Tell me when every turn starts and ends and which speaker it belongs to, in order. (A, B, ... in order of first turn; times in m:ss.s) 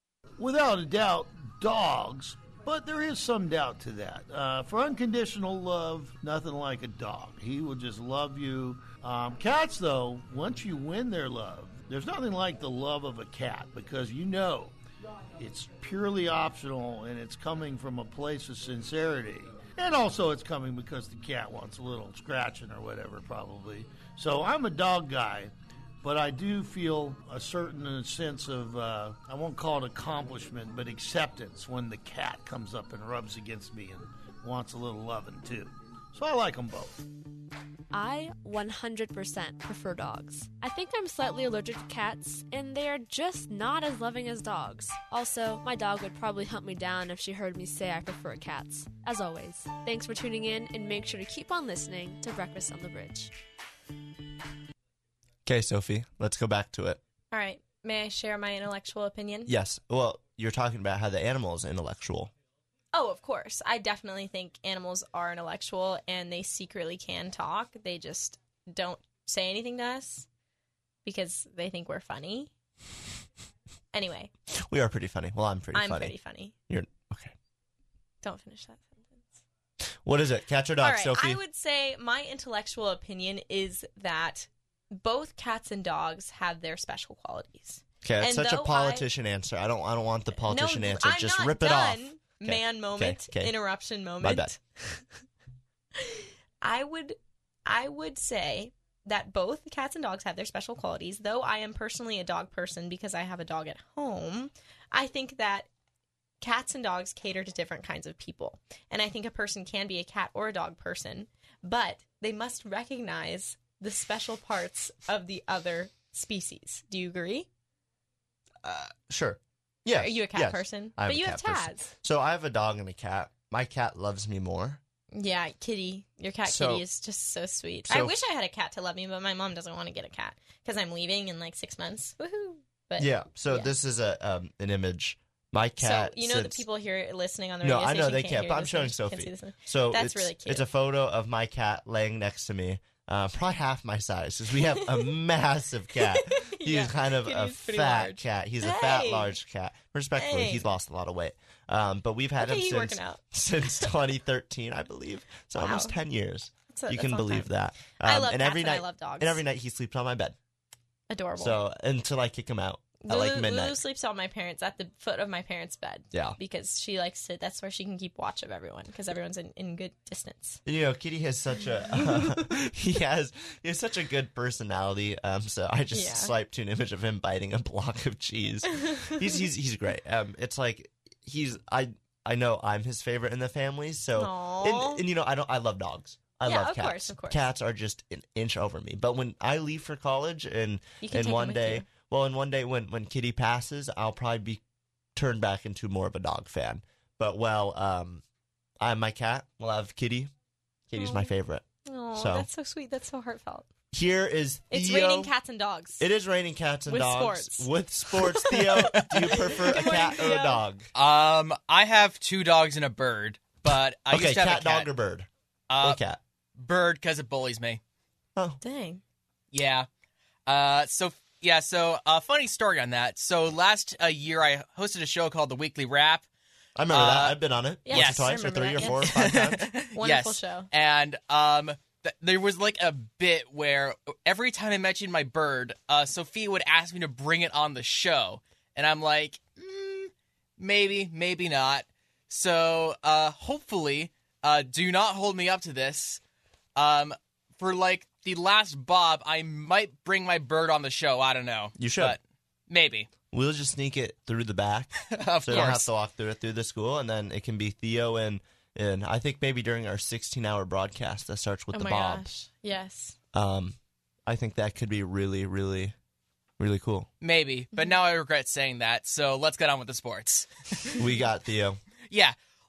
0:00.4-0:14.8 A
0:15.4-0:37.0 A
0:37.9-0:53.3 B
0:55.4-0:57.0 C
0:57.3-0:59.5 D
0:59.5-1:02.3 C
1:02.9-1:10.3 D
1:11.0-1:12.5 D
1:13.9-1:14.3 D
1:14.6-1:16.1 C
1:15.7-1:16.5 D
1:16.7-1:17.3 C
1:18.2-1:19.4 D
1:20.0-1:21.4 C
1:20.8-1:29.1 D
1:28.0-1:33.6 C
1:30.4-1:35.0 D
1:34.2-1:34.5 C
1:36.0-1:45.7 D
1:46.4-1:57.5 D
1:58.6-2:04.8 C
1:59.9-2:01.9 D
2:05.1-2:13.7 D
2:06.4-2:06.8 C
2:07.9-2:08.2 C
2:13.0-2:16.6 C
2:15.8-2:20.7 D
2:17.6-2:40.4 C
2:26.0-2:29.4 D
2:30.2-2:30.7 D
2:32.4-2:33.2 D
2:35.6-2:36.0 D
2:36.7-2:39.4 D
2:41.1-2:41.6 D
2:41.4-2:43.8 C
2:43.0-2:50.6 D
2:46.1-2:46.4 C
2:50.7-3:14.6 C
2:55.9-2:56.3 D
2:58.8-2:59.3 D
3:04.2-3:05.0 D
3:06.4-3:07.4 D
3:11.0-3:11.9 D
3:15.2-3:18.2 C
3:18.8-3:20.3 C
3:20.9-3:21.6 C
3:21.0-3:21.3 D
3:21.8-3:23.7 D
3:22.2-3:22.5 C
3:23.9-3:25.3 C
3:24.7-3:26.1 D
3:26.0-3:30.9 C
3:26.9-3:27.7 D
3:28.2-3:30.6 D
3:31.0-3:34.9 E
3:34.1-3:35.3 C
3:35.7-3:36.0 E
3:35.8-3:36.2 C
3:36.6-3:37.8 E
3:38.6-3:39.0 D
3:39.5-3:39.9 E
3:40.5-3:46.3 E
3:46.8-3:49.6 C
3:46.9-3:47.4 E
3:47.9-3:50.7 D
3:47.9-4:06.2 E
4:06.8-4:13.1 E
4:11.8-4:12.2 C
4:13.3-4:22.3 C
4:15.1-4:15.9 E
4:21.7-4:23.2 D
4:23.3-4:26.0 C
4:26.6-4:27.1 C
4:27.2-4:30.5 E
4:31.0-4:31.8 C
4:32.1-4:32.4 E